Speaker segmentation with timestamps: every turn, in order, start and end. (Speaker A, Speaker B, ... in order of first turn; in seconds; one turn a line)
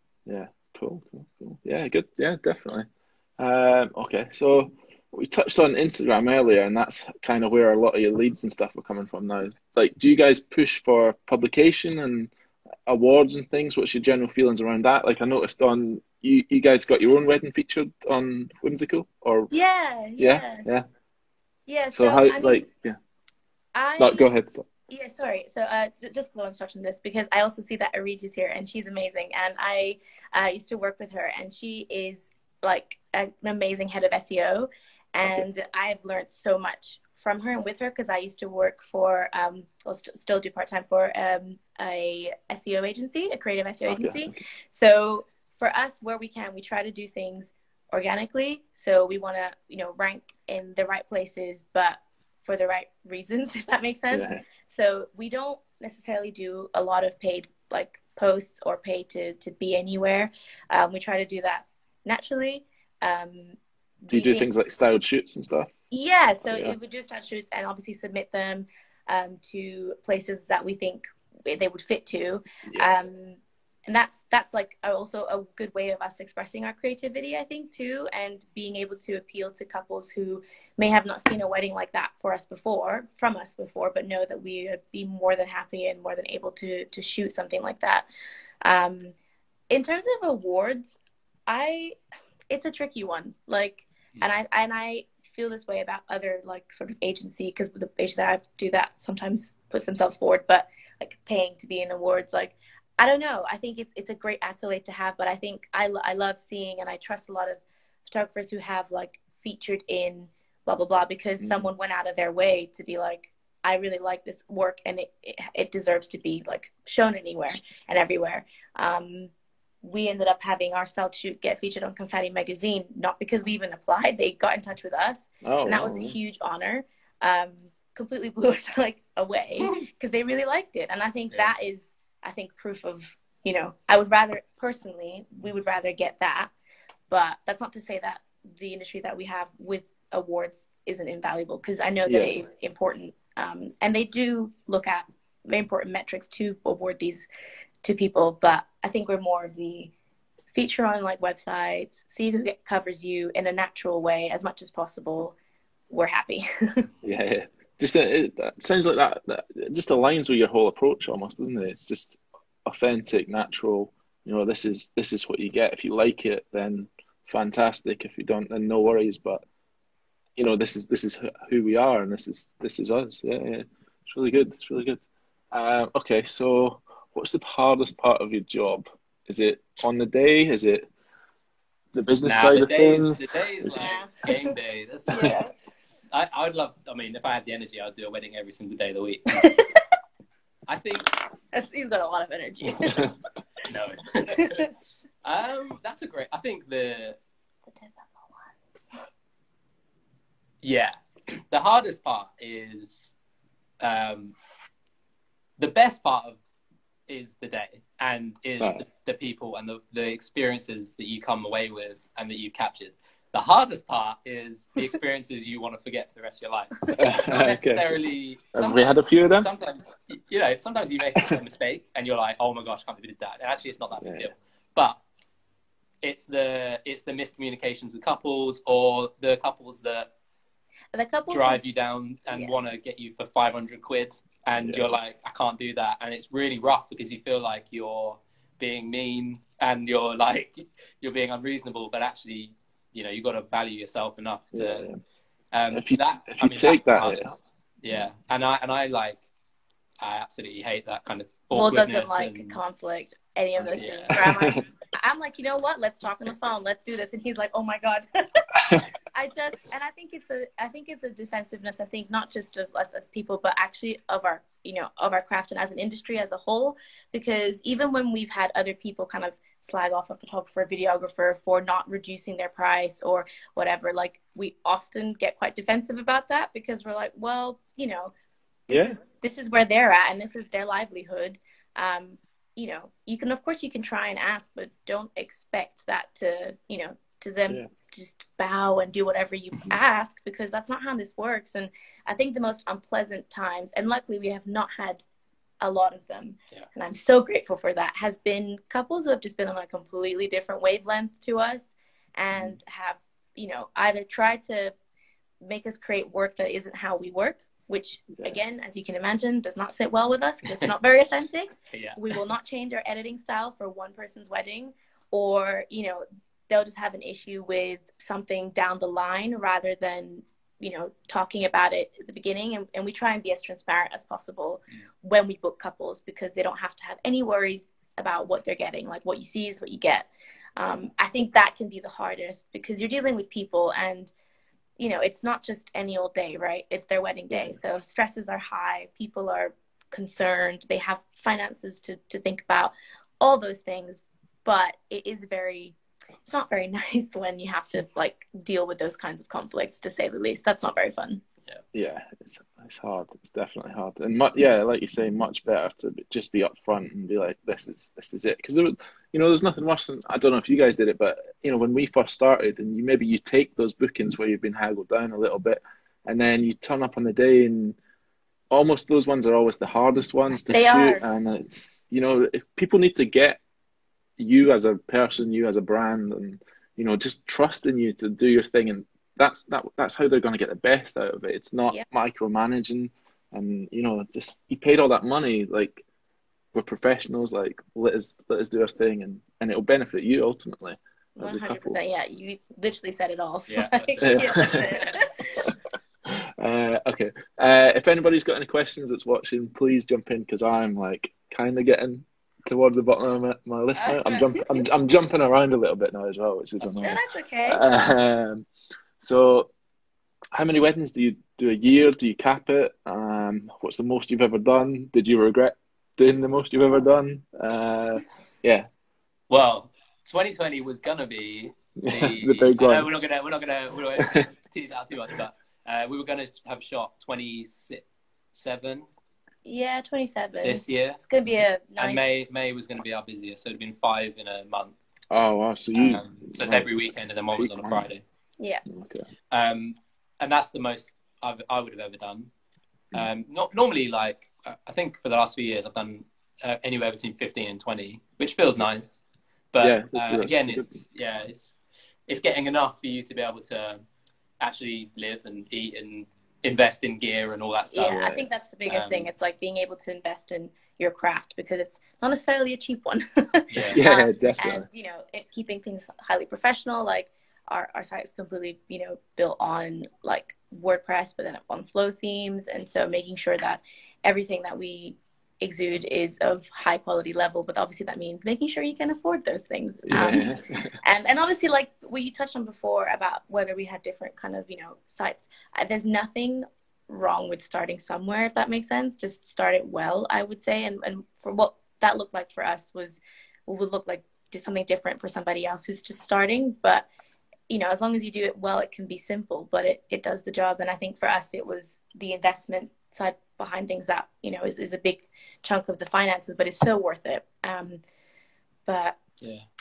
Speaker A: 0.3-2.9
Speaker A: 3.4-12.3
Speaker A: 12.9-19.5
Speaker B: 19.5-20.7
Speaker A: 20.2-20.9
Speaker B: 21.7-22.6
Speaker A: 21.9-23.0
Speaker B: 23.8-24.3
Speaker A: 24.0-24.6
Speaker B: 24.9-64.5
Speaker A: 43.9-44.4
Speaker A: 54.1-54.4
Speaker A: 64.1-65.7
Speaker B: 65.9-88.1
Speaker A: 66.4-66.8
Speaker B: 88.7-89.2
Speaker B: 89.7-92.0
Speaker B: 92.5-136.5
Speaker A: 111.4-111.7
Speaker A: 125.4-126.2
Speaker B: 137.1-147.2
Speaker A: 142.1-142.4
Speaker B: 147.8-149.9
Speaker B: 150.5-155.3
Speaker B: 155.9-156.9
Speaker A: 157.0-169.4
Speaker A: 170.4-180.9
Speaker A: 181.9-183.9
Speaker C: 182.2-185.4
Speaker B: 183.8-184.6
Speaker B: 185.1-185.5
Speaker C: 186.1-189.5
Speaker B: 189.4-189.8
Speaker C: 190.7-191.1
Speaker B: 191.5-193.1
Speaker C: 193.7-194.7
Speaker B: 194.4-194.6
Speaker C: 195.2-197.2
Speaker B: 197.7-199.0
Speaker C: 200.6-203.1
Speaker C: 203.8-204.3
Speaker C: 205.6-206.4
Speaker C: 207.1-225.0
Speaker A: 217.0-218.0
Speaker A: 218.5-219.5
Speaker A: 224.0-224.3
Speaker C: 226.0-230.1
Speaker B: 230.9-231.6
Speaker C: 231.3-244.9
Speaker B: 232.3-232.6
Speaker A: 234.6-235.0
Speaker A: 244.5-245.0
Speaker C: 245.5-249.2
Speaker A: 245.7-247.4
Speaker C: 250.0-252.6
Speaker B: 251.5-278.1
Speaker A: 253.6-254.7
Speaker C: 253.7-254.2
Speaker B: 278.7-295.0
Speaker A: 278.7-279.0
Speaker B: 295.6-304.8
Speaker A: 302.3-302.6
Speaker B: 305.4-334.1
Speaker C: 311.7-312.0
Speaker B: 334.8-351.2
Speaker A: 351.7-367.8
Speaker A: 368.5-373.4
Speaker B: 370.4-371.0
Speaker A: 374.2-385.8
Speaker A: 386.5-391.8
Speaker B: 391.2-395.5
Speaker C: 393.5-395.0
Speaker A: 394.0-394.7
Speaker A: 396.1-408.5
Speaker B: 403.8-404.6
Speaker B: 406.6-407.6
Speaker A: 409.0-409.5
Speaker A: 410.3-418.7
Speaker C: 419.3-428.9
Speaker A: 421.8-422.9
Speaker A: 423.9-424.3
Speaker B: 429.5-432.2
Speaker C: 430.4-431.1
Speaker C: 431.8-434.8
Speaker A: 435.1-436.7
Speaker C: 435.7-438.0
Speaker A: 437.4-437.9
Speaker A: 438.7-439.1
Speaker C: 439.3-442.3
Speaker C: 442.9-449.0
Speaker C: 449.5-453.8
Speaker A: 449.6-450.8
Speaker C: 454.4-458.1
Speaker B: 457.7-480.3
Speaker A: 457.9-458.3
Speaker C: 458.7-459.1
Speaker C: 463.5-463.8
Speaker A: 463.7-464.7
Speaker A: 479.9-480.8
Speaker B: 480.8-496.9
Speaker B: 497.5-507.8
Speaker B: 508.7-509.0